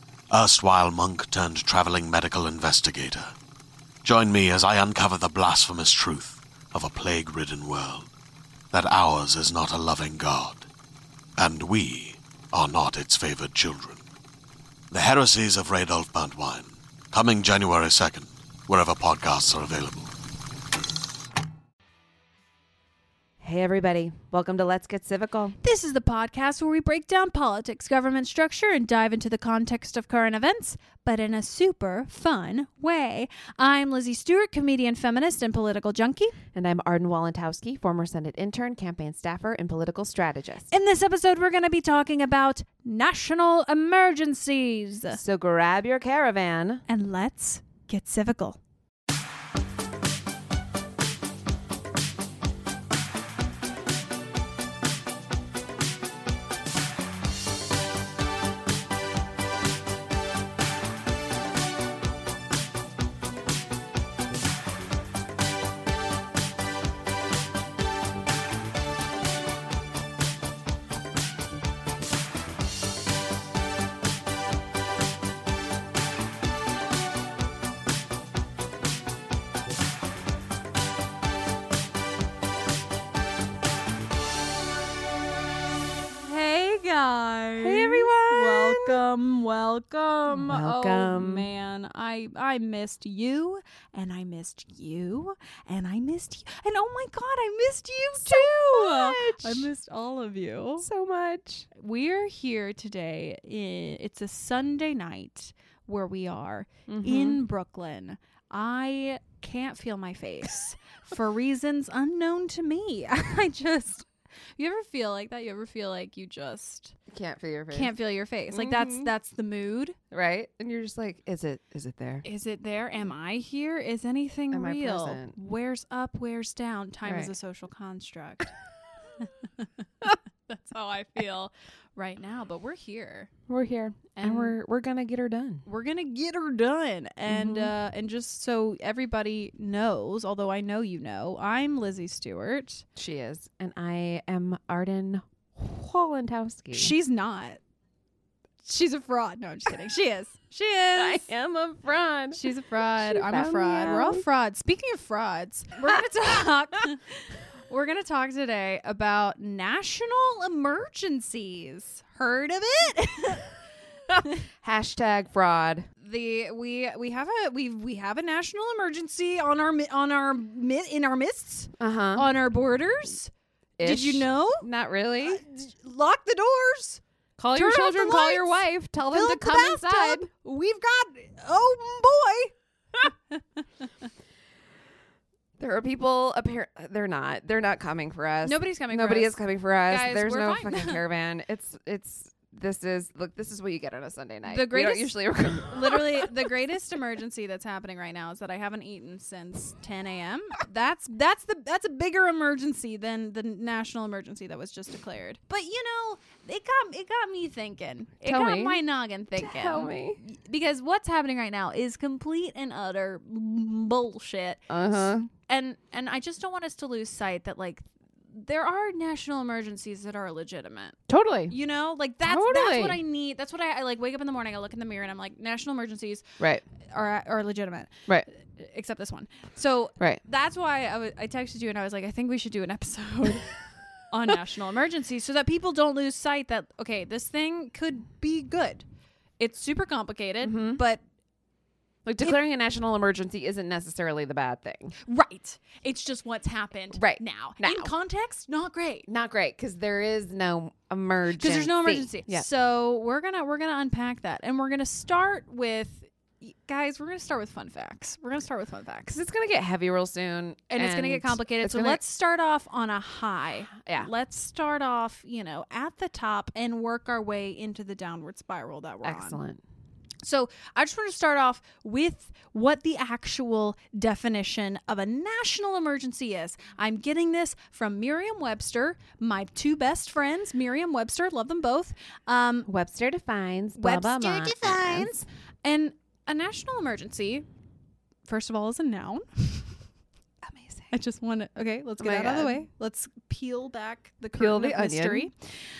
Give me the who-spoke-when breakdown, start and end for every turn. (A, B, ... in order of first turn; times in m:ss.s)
0:00.3-0:03.3 A
0:04.0-0:08.1 A
0:08.7-0:10.6 A
0:11.4-0:14.0 A
0:14.9-0:20.1 A
0:23.4-0:25.6 B
0:25.6-0:36.4 C
0:36.5-0:40.7 B
0:40.7-0:45.2 C
0:45.1-0:46.8 B
0:46.9-0:48.6 C
1:26.1-1:40.9 C
1:27.6-1:29.0 B
1:30.3-1:31.5 B
1:38.2-1:39.7 B
1:40.8-1:41.7 B
1:41.7-1:57.0 C
1:46.9-1:47.4 B
1:57.1-1:57.9 B
1:57.7-2:00.0 C
1:58.5-1:59.1 B
2:00.1-2:02.2 B
2:02.2-2:08.5 C
2:04.5-2:05.4 B
2:07.0-2:07.3 B
2:10.5-2:13.3 C
2:13.5-2:15.6 B
2:14.2-2:14.6 C
2:15.6-2:22.8 C
2:17.3-2:17.7 B
2:23.0-2:26.9 B
2:26.7-2:27.6 C
2:28.6-2:31.2 C
2:31.0-2:34.2 B
2:32.3-2:43.5 C
2:44.6-2:45.9 B
2:46.0-2:54.7 C
2:51.8-2:52.3 B
2:53.8-2:55.4 B
2:55.2-2:57.0 C
2:57.4-3:00.3 B
2:57.5-3:02.5 C
3:05.6-3:16.3 B
3:08.4-3:09.4 C
3:09.9-3:11.0 C
3:14.5-3:41.0 C
3:28.2-3:28.8 B
3:29.4-3:30.2 B
3:34.7-3:35.3 B
3:41.1-3:41.5 B
3:41.5-3:46.2 C
3:42.2-3:43.0 B
3:46.4-3:46.6 B
3:46.8-3:53.5 C
3:54.1-3:58.8 C
3:59.4-4:01.0 C
4:00.4-4:00.8 B
4:02.0-4:05.0 B
4:05.0-4:09.1 C
4:06.9-4:07.9 B
4:09.1-4:12.5 B
4:11.3-4:19.1 C
4:19.1-4:22.0 B
4:20.7-4:29.4 C
4:23.7-4:24.1 B
4:29.0-4:29.6 B
4:30.2-4:42.7 C
4:42.7-4:45.1 B
4:43.8-4:47.5 C
4:48.2-4:49.8 C
4:50.4-4:50.9 B
4:50.9-4:55.3 C
4:52.0-4:52.6 B
4:54.4-4:55.3 B